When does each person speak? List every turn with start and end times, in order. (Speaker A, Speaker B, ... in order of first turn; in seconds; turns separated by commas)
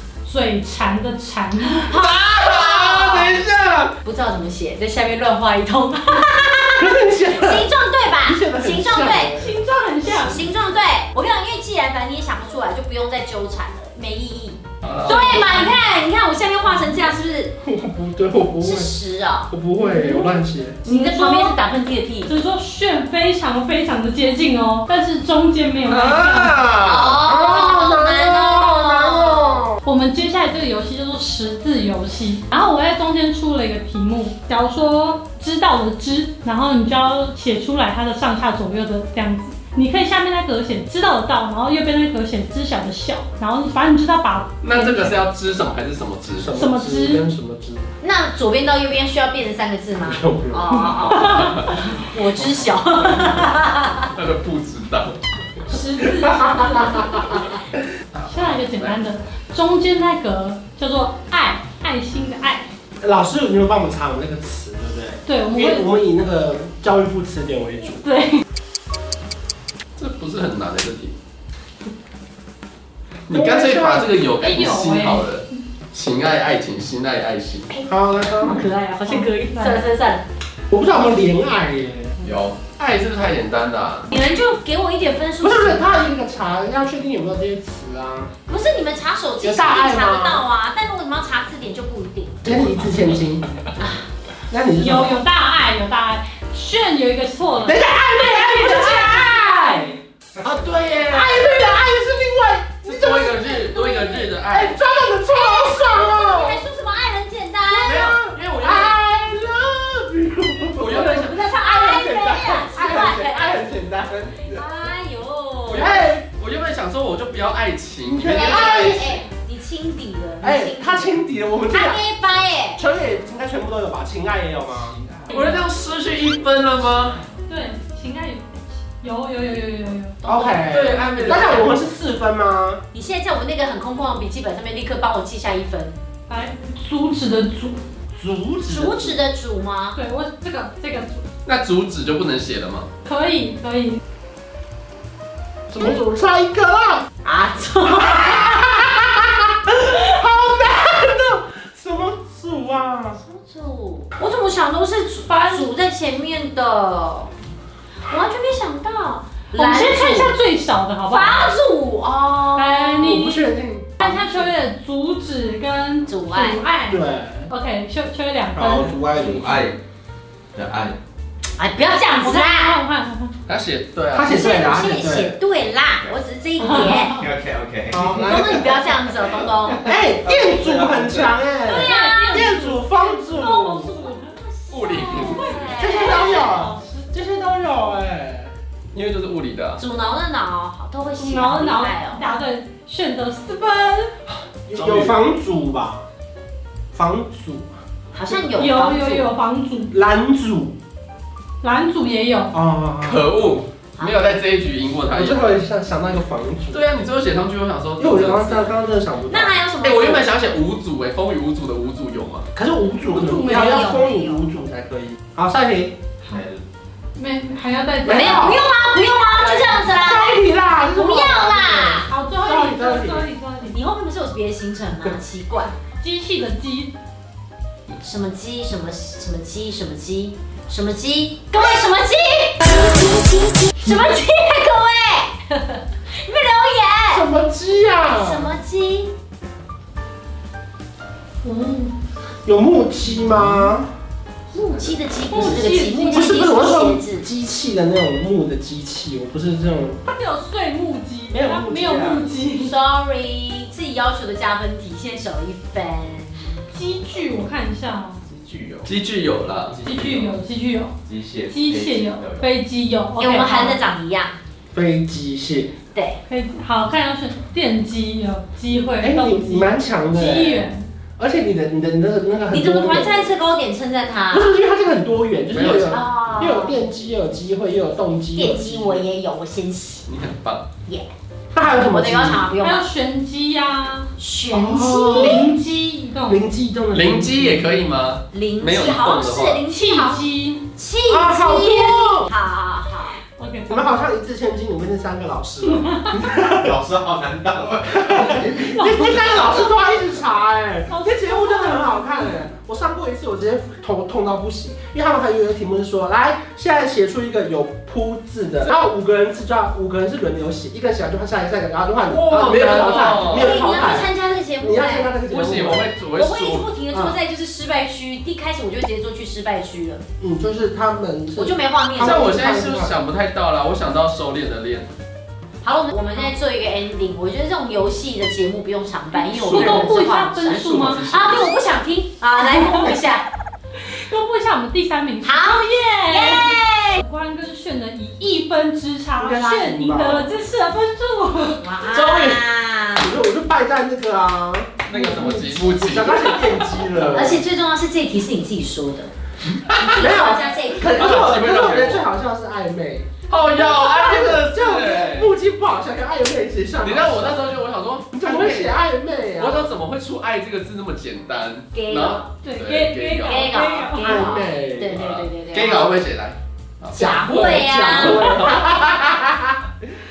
Speaker A: 0.2-1.9, Speaker B: 1.8-3.4, Speaker C: 2.0-4.0, Speaker B: 4.0-9.4, Speaker D: 6.8-9.5, Speaker A: 9.4-10.5, Speaker B: 10.1-17.5, Speaker A: 14.9-15.8, Speaker D: 17.6-19.0, Speaker B: 18.6-19.5, Speaker D: 19.5-20.8, Speaker A: 19.8-21.6, Speaker B: 20.8-22.3, Speaker A: 22.3-26.6, Speaker C: 25.9-27.2, Speaker B: 26.8-29.6, Speaker D: 27.1-29.8, Speaker A: 29.8-45.1, Speaker C: 44.6-46.5, Speaker D: 46.4-47.9, Speaker A: 46.5-47.3, Speaker B: 48.0-54.1, Speaker D: 50.0-51.4, Speaker A: 51.2-51.6, Speaker C: 51.5-51.9, Speaker C: 54.1-55.6, Speaker A: 55.7-57.5, Speaker D: 56.4-57.4, Speaker C: 58.1-59.0, Speaker A: 58.2-62.7, Speaker D: 63.0-68.0, Speaker A: 65.2-65.9, Speaker A: 68.0-68.4, Speaker C: 70.0-71.2, Speaker C: 73.3-77.7, Speaker D: 73.3-74.1, Speaker A: 74.4-75.4, Speaker B: 77.7-80.2, Speaker D: 77.9-78.6, Speaker A: 79.0-79.8, Speaker D: 80.7-82.2, Speaker C: 82.2-84.1, Speaker B: 84.1-85.9, Speaker D: 85.4-88.3, Speaker B: 88.5-92.4, Speaker D: 89.4-90.4, Speaker D: 92.4-93.5, Speaker C: 92.5-93.2, Speaker B: 93.8-94.1, Speaker D: 94.5-95.2, Speaker A: 94.8-97.8, Speaker D: 97.6-103.4, Speaker B: 98.2-99.4, Speaker A: 99.4-99.9, Speaker B: 101.1-102.0, Speaker C: 102.8-104.8, Speaker B: 103.2-104.3, Speaker D: 104.5-106.6, Speaker B: 104.9-108.2, Speaker D: 107.8-114.6, Speaker C: 107.8-109.0, Speaker C: 110.8-111.4, Speaker B: 111.0-113.6, Speaker B: 114.4-116.0, Speaker C: 115.7-119.2, Speaker D: 115.7-116.3, Speaker D: 118.0-119.0, Speaker B: 118.2-122.8, Speaker D: 120.4-122.0, Speaker D: 122.8-125.0, Speaker A: 125.3-125.6, Speaker C: 125.3-127.2, Speaker A: 127.5-130.2, Speaker B: 130.2-131.6, Speaker D: 130.2-132.8, Speaker C: 130.7-131.8, Speaker B: 132.9-135.9, Speaker A: 136.3-137.8, Speaker D: 138.1-139.2, Speaker B: 138.7-140.0, Speaker A: 139.9-141.2, Speaker C: 141.4-142.9, Speaker A: 143.1-144.0, Speaker D: 145.7-147.1, Speaker B: 147.2-148.9, Speaker D: 148.1-153.2, Speaker B: 153.2-157.3, Speaker A: 155.3-155.7, Speaker B: 158.1-160.3, Speaker A: 159.5-161.5, Speaker B: 161.1-163.2, Speaker A: 162.5-169.0, Speaker D: 163.0-163.9, Speaker B: 164.0-164.3, Speaker B: 166.1-166.6, Speaker D: 166.9-167.5, Speaker D: 168.5-169.7, Speaker E: 169.1-169.8, Speaker E: 170.6-171.0, Speaker B: 171.6-172.8, Speaker A: 172.2-173.3, Speaker C: 173.5-174.3, Speaker D: 174.1-175.4, Speaker B: 174.3-177.3, Speaker A: 176.6-177.1, Speaker E: 176.7-179.6, Speaker D: 177.9-178.6, Speaker B: 178.2-179.9, Speaker D: 179.8-183.9, Speaker E: 180.3-181.2, Speaker C: 180.3-181.2, Speaker B: 181.7-182.6, Speaker A: 181.7-184.4, Speaker B: 183.9-186.7, Speaker C: 184.7-185.5, Speaker A: 184.9-187.0, Speaker D: 185.8-188.5, Speaker C: 188.9-189.8, Speaker B: 189.8-192.3, Speaker A: 191.2-194.1, Speaker D: 194.7-196.1, Speaker C: 194.7-195.2, Speaker D: 196.9-197.7, Speaker B: 198.1-199.3, Speaker A: 198.6-199.9, Speaker D: 199.9-200.8, Speaker A: 201.6-202.5, Speaker D: 202.5-203.3, Speaker C: 203.0-205.6, Speaker B: 204.0-204.4, Speaker D: 205.1-206.8, Speaker C: 206.7-208.8, Speaker D: 208.0-209.6, Speaker B: 209.3-210.3, Speaker C: 209.8-212.5, Speaker D: 212.6-216.0, Speaker B: 213.1-214.4, Speaker E: 216.3-216.6, Speaker A: 217.2-218.6, Speaker D: 218.1-218.6, Speaker B: 218.1-222.1, Speaker D: 219.4-223.3, Speaker A: 222.1-223.8, Speaker B: 223.7-225.7, Speaker A: 225.9-226.9, Speaker B: 228.0-237.2, Speaker D: 237.1-238.5, Speaker B: 238.1-239.1, Speaker A: 241.4-241.9, Speaker D: 242.5-243.9, Speaker B: 244.5-247.3, Speaker A: 245.3-246.5, Speaker D: 246.1-250.0, Speaker A: 250.1-252.8, Speaker D: 251.3-252.2, Speaker B: 252.6-256.4, Speaker A: 256.7-258.2, Speaker E: 258.3-258.9, Speaker C: 258.9-259.8, Speaker E: 259.6-260.4, Speaker A: 259.8-260.9, Speaker E: 261.1-262.5, Speaker A: 261.5-263.8, Speaker B: 263.2-264.4, Speaker D: 264.7-265.7, Speaker B: 265.9-266.2, Speaker A: 266.3-270.9, Speaker D: 269.0-270.7, Speaker D: 271.2-273.3, Speaker B: 272.5-274.5, Speaker D: 274.3-279.1, Speaker C: 275.5-276.0, Speaker B: 275.9-276.8, Speaker B: 278.4-280.1, Speaker C: 280.1-280.7, Speaker D: 281.5-282.5, Speaker B: 281.7-282.8, Speaker A: 282.6-286.4, Speaker B: 284.2-285.5, Speaker D: 285.0-287.8, Speaker C: 286.9-289.6, Speaker B: 288.3-293.2, Speaker A: 289.7-290.6, Speaker D: 291.1-292.3, Speaker A: 293.2-294.0, Speaker D: 293.7-296.8, Speaker A: 295.6-296.2, Speaker E: 296.4-298.7, Speaker D: 297.9-315.9, Speaker A: 298.7-299.6, Speaker A: 300.9-302.4, Speaker C: 312.1-313.7, Speaker B: 312.7-315.2, Speaker C: 315.2-317.1, Speaker B: 316.1-320.0, Speaker D: 320.2-323.0, Speaker B: 321.4-322.3, Speaker C: 322.0-324.9, Speaker B: 325.6-333.3, Speaker A: 329.1-331.1, Speaker C: 329.3-329.9, Speaker C: 330.5-331.5, Speaker A: 332.4-333.0, Speaker A: 333.8-341.7, Speaker B: 335.2-337.0, Speaker D: 339.2-340.3, Speaker B: 341.6-343.1, Speaker D: 341.9-342.4, Speaker D: 343.0-347.4, Speaker C: 344.9-346.9, Speaker B: 347.0-349.1, Speaker C: 349.7-350.0, Speaker B: 349.8-351.9, Speaker D: 349.9-357.4, Speaker C: 350.8-352.0, Speaker C: 353.3-355.3, Speaker C: 356.8-358.8, Speaker D: 358.1-359.7, Speaker C: 359.4-363.5, Speaker B: 361.7-362.4, Speaker A: 362.4-364.3, Speaker B: 363.2-366.0, Speaker D: 364.0-365.0, Speaker C: 364.9-367.0, Speaker B: 366.9-368.6, Speaker D: 366.9-369.6, Speaker C: 367.9-368.4